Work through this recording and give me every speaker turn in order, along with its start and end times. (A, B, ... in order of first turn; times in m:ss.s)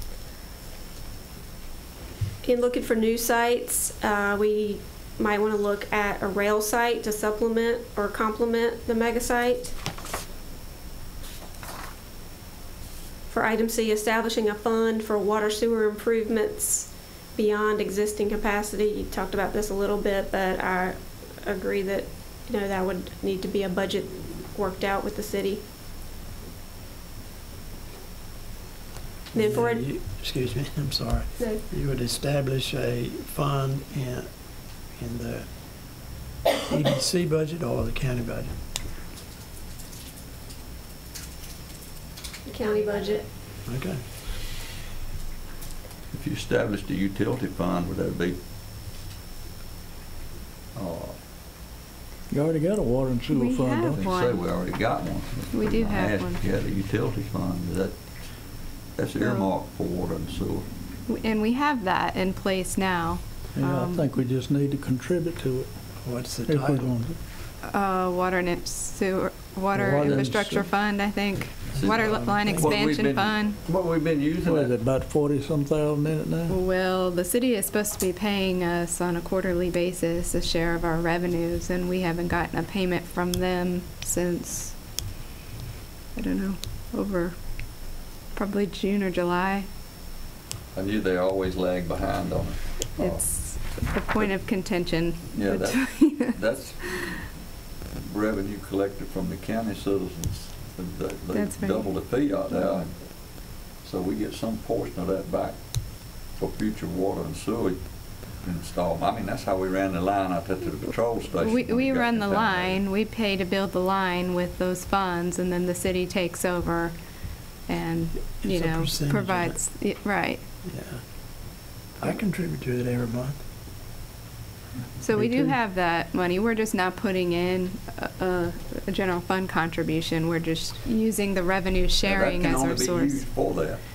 0:02.4-0:09.7 A
0:13.3-0:25.6 A
0:29.3-0:29.8 A
0:29.3-0:34.3 B
0:34.9-0:35.4 B
0:36.6-0:38.5 B
0:42.4-0:43.2 A
0:43.6-0:44.0 B
0:46.1-0:48.4 C
0:50.7-0:51.2 C
0:52.3-0:54.0 D
0:53.3-0:54.4 E
0:53.9-0:57.9 C
0:55.5-0:56.4 E
0:59.0-1:00.7 C
0:59.2-0:59.4 E
1:01.1-1:04.1 E
1:03.6-1:05.7 D
1:06.0-1:06.9 B
1:06.4-1:07.2 D
1:07.6-1:13.6 E
1:09.7-1:10.6 D
1:09.8-1:10.6 C
1:11.8-1:14.7 C
1:11.8-1:12.8 B
1:14.4-1:16.6 D
1:16.5-1:24.8 E
1:26.1-1:27.3 E
1:28.3-1:29.7 E
1:30.7-1:33.2 C
1:33.0-1:36.4 E
1:35.3-1:37.2 C
1:38.0-1:43.0 C
1:41.3-1:41.9 E
1:43.8-1:45.6 C
1:46.4-1:47.8 C
1:48.4-1:52.8 C
1:51.4-1:56.9 E
1:57.7-2:00.4 E
1:58.4-1:59.6 B
2:00.6-2:01.0 B
2:02.0-2:03.4 B
2:05.0-2:13.2 E
2:05.1-2:05.5 D
2:12.0-2:13.8 C